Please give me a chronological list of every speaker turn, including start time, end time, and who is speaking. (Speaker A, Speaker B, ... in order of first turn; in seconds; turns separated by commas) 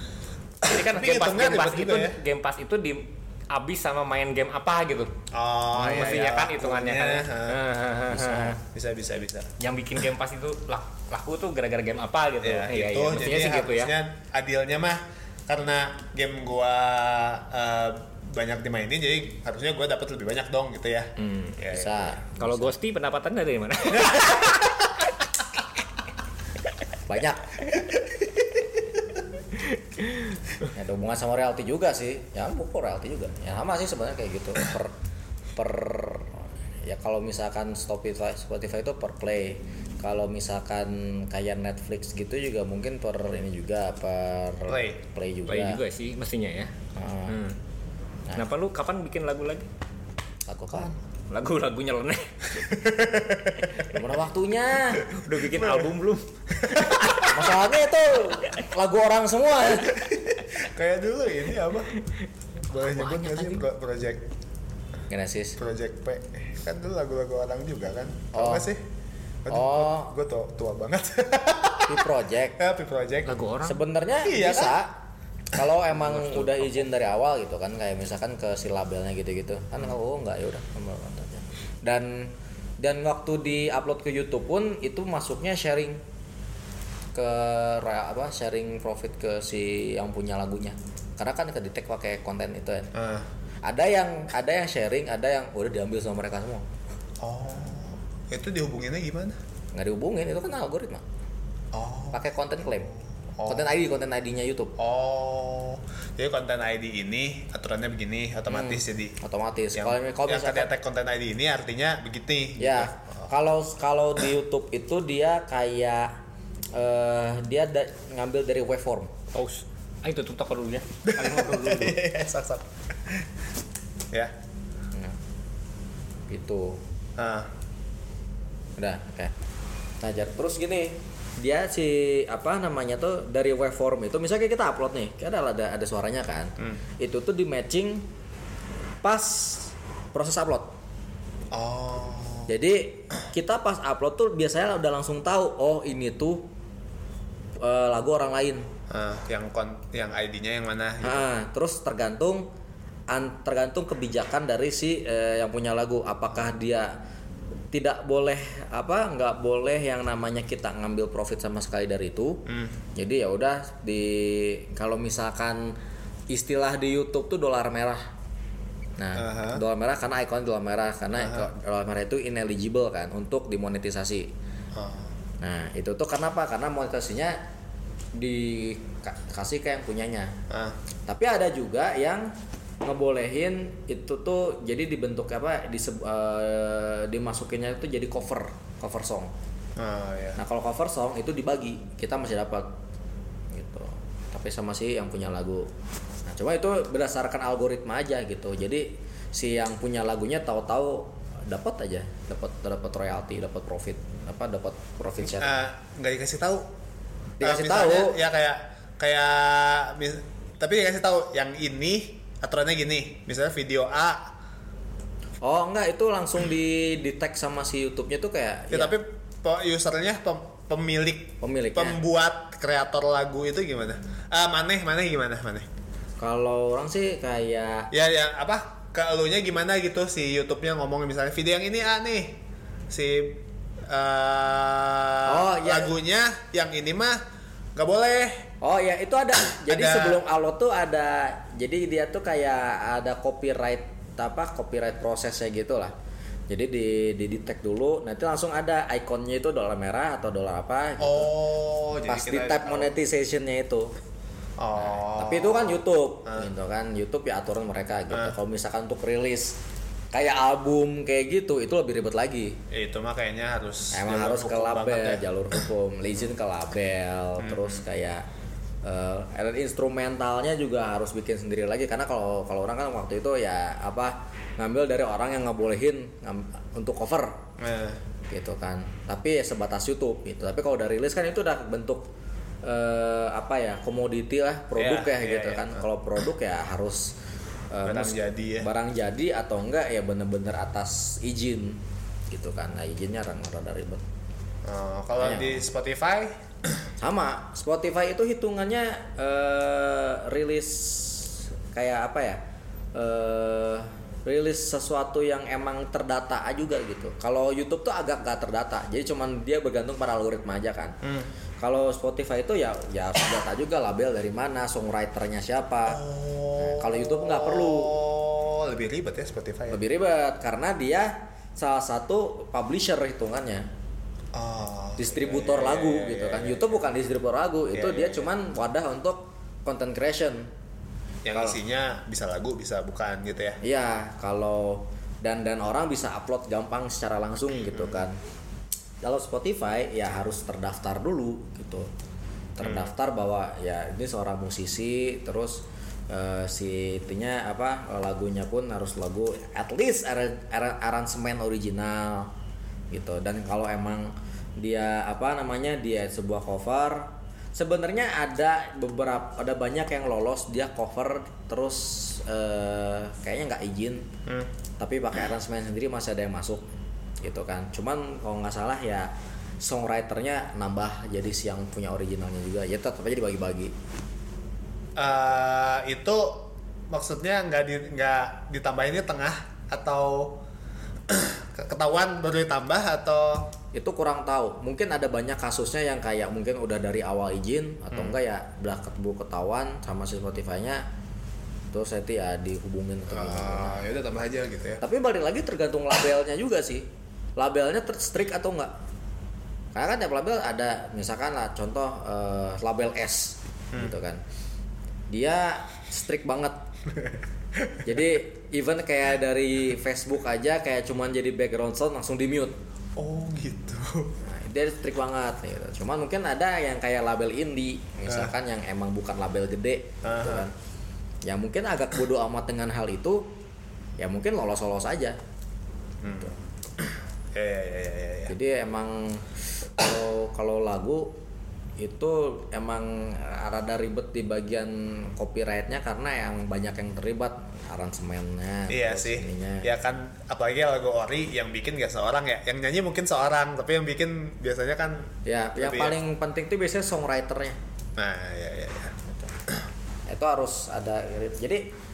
Speaker A: 0.6-2.2, Speaker B: 0.6-5.1, Speaker A: 5.3-7.6, Speaker B: 5.7-8.6, Speaker C: 5.8-6.1, Speaker C: 8.1-8.6, Speaker A: 8.6-9.5, Speaker B: 9.6-13.9, Speaker A: 12.4-22.2, Speaker C: 21.4-22.7, Speaker B: 22.4-25.0, Speaker A: 24.0-24.4, Speaker C: 27.1-27.8, Speaker C: 30.6-34.9, Speaker C: 35.5-45.8, Speaker A: 44.7-45.0, Speaker B: 45.5-46.7, Speaker C: 46.9-47.4, Speaker B: 47.3-47.5, Speaker B: 48.4-49.7, Speaker C: 50.5-50.9, Speaker B: 51.3-52.7, Speaker A: 52.7-53.8, Speaker C: 53.8-55.1, Speaker B: 55.0-57.4, Speaker A: 55.5-55.9, Speaker A: 56.6-57.3, Speaker C: 57.2-60.1, Speaker A: 59.9-61.9, Speaker A: 62.7-64.3, Speaker B: 62.7-63.6, Speaker C: 65.1-65.6, Speaker A: 65.6-68.8, Speaker C: 68.3-68.7, Speaker A: 69.4-73.4, Speaker C: 69.5-70.1, Speaker C: 71.9-72.6, Speaker B: 73.2-73.8, Speaker C: 73.6-75.0, Speaker A: 74.2-74.8, Speaker C: 75.5-86.0, Speaker B: 76.0-76.8, Speaker C: 87.1-92.9, Speaker A: 92.9-93.3, Speaker C: 93.6-96.7, Speaker A: 97.2-99.4, Speaker C: 99.7-101.0, Speaker A: 101.7-102.2, Speaker C: 102.1-102.9, Speaker A: 102.9-103.8, Speaker C: 103.5-104.7, Speaker A: 104.8-109.2, Speaker C: 108.5-110.7, Speaker A: 109.7-113.3, Speaker C: 112.6-116.1, Speaker C: 116.7-119.1, Speaker B: 119.3-122.0, Speaker A: 121.0-123.2, Speaker C: 126.3-126.8, Speaker A: 127.2-127.5, Speaker C: 128.8-129.3, Speaker C: 130.0-138.1, Speaker C: 139.0-140.7, Speaker A: 141.5-142.5, Speaker C: 142.5-146.5, Speaker C: 147.6-148.7, Speaker A: 148.9-151.3, Speaker C: 151.0-152.4, Speaker C: 153.1-156.9, Speaker C: 157.7-162.4, Speaker A: 162.4-162.8, Speaker C: 162.9-165.8, Speaker C: 166.3-168.0, Speaker C: 169.0-174.3, Speaker A: 169.2-169.6, Speaker A: 171.2-171.5, Speaker A: 174.7-175.1, Speaker C: 175.4-177.4, Speaker C: 178.2-180.3, Speaker A: 180.5-180.8, Speaker C: 181.1-182.3, Speaker C: 182.8-189.3, Speaker A: 189.8-190.4, Speaker C: 190.3-192.7, Speaker C: 193.5-195.7, Speaker C: 196.3-205.6, Speaker A: 205.2-206.7, Speaker C: 207.4-208.2, Speaker A: 207.4-214.3, Speaker C: 215.4-218.9, Speaker A: 218.7-225.7, Speaker C: 221.4-222.0, Speaker C: 226.2-227.9, Speaker A: 227.9-237.2, Speaker C: 235.2-235.9, Speaker A: 237.8-238.5, Speaker C: 238.6-245.9, Speaker A: 239.6-240.2, Speaker C: 246.5-251.3, Speaker A: 251.0-252.9, Speaker C: 252.1-253.9, Speaker A: 254.6-256.5, Speaker C: 254.8-259.6, Speaker C: 260.1-262.6, Speaker A: 262.7-265.6, Speaker C: 263.9-268.2, Speaker A: 267.4-267.8, Speaker C: 268.8-277.4, Speaker A: 277.6-278.0, Speaker C: 278.3-282.1, Speaker C: 282.6-287.1, Speaker A: 284.8-285.9, Speaker C: 287.7-294.0, Speaker A: 287.8-288.7, Speaker A: 294.6-296.8, Speaker C: 295.2-295.6, Speaker C: 297.0-302.4, Speaker C: 302.9-311.0, Speaker A: 311.0-311.3, Speaker C: 311.6-316.0, Speaker A: 315.9-319.8, Speaker C: 316.6-318.0, Speaker C: 319.7-323.7, Speaker A: 324.3-326.8, Speaker C: 325.0-330.5, Speaker A: 327.7-328.3, Speaker A: 331.2-333.6, Speaker C: 331.3-331.6, Speaker C: 333.6-338.2, Speaker A: 337.7-338.0, Speaker C: 339.0-341.9, Speaker C: 342.6-352.3, Speaker A: 342.6-342.9, Speaker C: 352.9-364.1, Speaker C: 364.8-366.6, Speaker C: 367.2-373.7, Speaker A: 374.9-380.4, Speaker A: 381.1-383.5, Speaker C: 383.7-390.8, Speaker A: 387.9-388.2, Speaker C: 391.7-393.8, Speaker A: 393.1-394.8, Speaker C: 394.8-398.7, Speaker C: 399.7-404.2, Speaker C: 405.1-406.6, Speaker C: 407.8-412.5, Speaker A: 413.0-414.1, Speaker C: 414.2-420.5, Speaker A: 418.1-418.3, Speaker A: 420.0-420.5, Speaker C: 421.2-423.2, Speaker C: 424.0-425.1, Speaker A: 426.0-428.3, Speaker C: 428.3-429.2, Speaker C: 429.8-431.1, Speaker C: 431.8-439.7, Speaker A: 438.7-446.0, Speaker C: 445.2-447.6, Speaker A: 448.0-449.0, Speaker C: 450.1-451.6